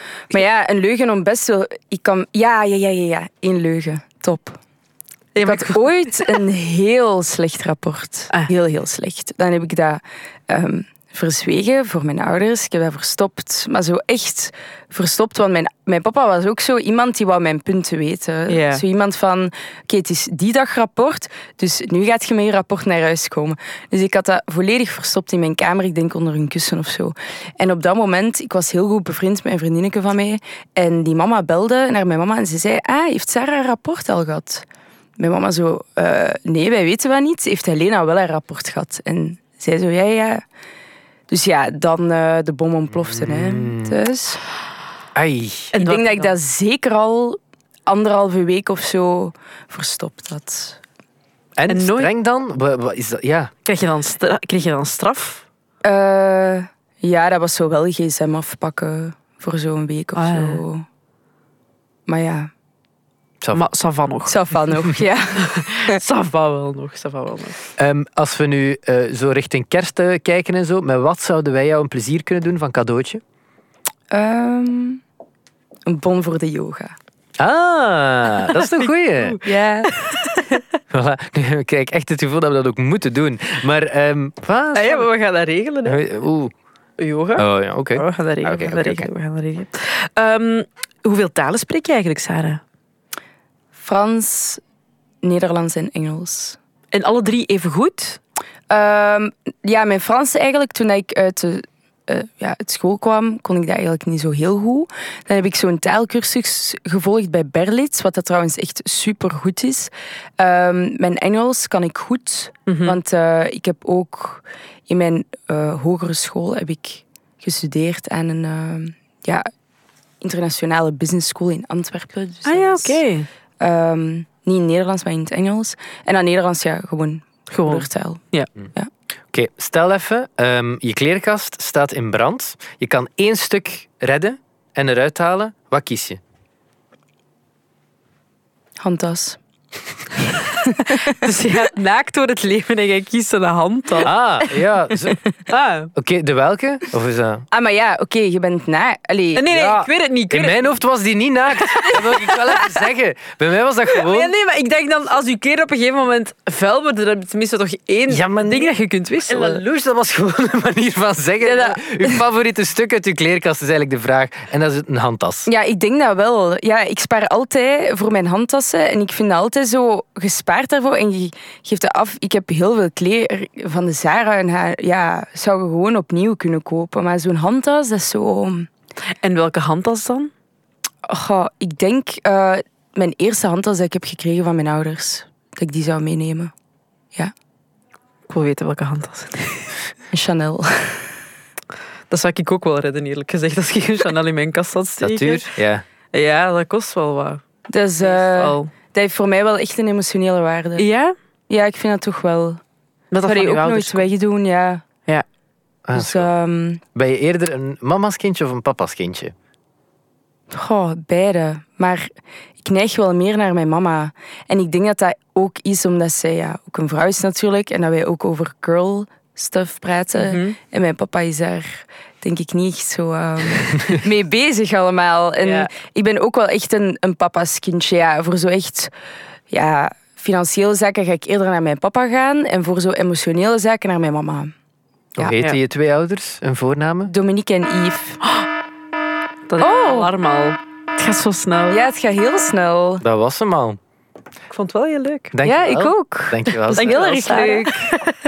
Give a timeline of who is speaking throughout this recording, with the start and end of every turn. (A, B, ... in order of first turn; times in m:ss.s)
0:00.3-0:04.6 A
0:05.3-0:06.4 B
0:05.4-0:34.6 A
0:18.5-0:18.8 B
0:35.2-0:40.4 A
0:41.3-0:44.4 A
0:42.9-0:44.0 C
0:45.1-0:45.7 C
0:45.7-0:46.3 B
0:45.8-0:50.8 A
0:51.6-0:53.5 C
0:51.7-0:52.1 B
0:53.6-0:55.4 B
0:55.8-1:00.8 A
1:00.2-1:00.6 B
1:02.1-1:02.5 A
1:03.5-1:04.5 B
1:04.3-1:06.0 A
1:05.4-1:07.6 B
1:07.8-1:13.2 C
1:14.1-1:15.0 A
1:15.8-1:16.9 A
1:17.4-1:19.4 C
1:18.5-1:20.6 B
1:19.4-1:19.9 A
1:20.9-1:25.1 C
1:24.7-1:26.0 B
1:25.8-1:26.5 C
1:27.0-1:32.6 B
1:27.4-1:29.1 C
1:33.8-1:34.6 A
1:35.2-1:36.6 A
1:36.9-1:38.2 B
1:38.7-1:59.5 A
1:52.7-1:53.0 B
2:00.2-2:03.0 A
2:02.4-2:03.3 B
2:03.6-2:08.9 A
2:07.5-2:08.5 B
2:09.3-2:16.2 C
2:18.8-2:19.4 A
2:20.6-2:21.2 A
2:21.0-2:24.5 B
2:24.0-2:25.2 C
2:25.5-2:25.9 B
2:25.9-2:27.4 C
2:27.5-2:29.4 A
2:29.3-2:30.7 B
2:29.5-2:34.3 C
2:31.6-2:32.6 B
2:33.9-2:39.6 B
2:38.1-2:38.7 C
2:39.3-2:45.5 C
2:41.4-2:42.2 A
2:45.4-2:58.7 A
2:59.2-3:00.3 B
3:01.1-3:06.5 A
3:08.3-3:09.7 B
3:10.1-3:11.1 A
3:12.1-3:15.5 B
3:15.0-3:15.8 C
3:16.1-3:17.4 B
3:17.7-3:20.8 A
3:18.0-3:18.7 B
3:20.8-3:21.1 B
3:21.5-3:22.6 A
3:23.1-3:24.0 B
3:23.2-3:24.8 A
3:25.8-3:26.3 C
3:25.9-3:26.8 A
3:26.9-3:29.3 C
3:30.5-3:32.1 A
3:32.6-3:48.9 A
3:40.2-3:40.6 B
3:45.4-3:45.7 B
3:49.5-3:54.5 A
3:55.2-3:57.1 C
3:57.1-3:58.2 A
3:59.5-4:01.8 B
3:59.6-4:00.1 A
4:01.7-4:03.0 A
4:03.0-4:03.8 C
4:04.5-4:05.3 B
4:05.3-4:07.4 C
4:05.4-4:07.9 A
4:06.7-4:08.1 B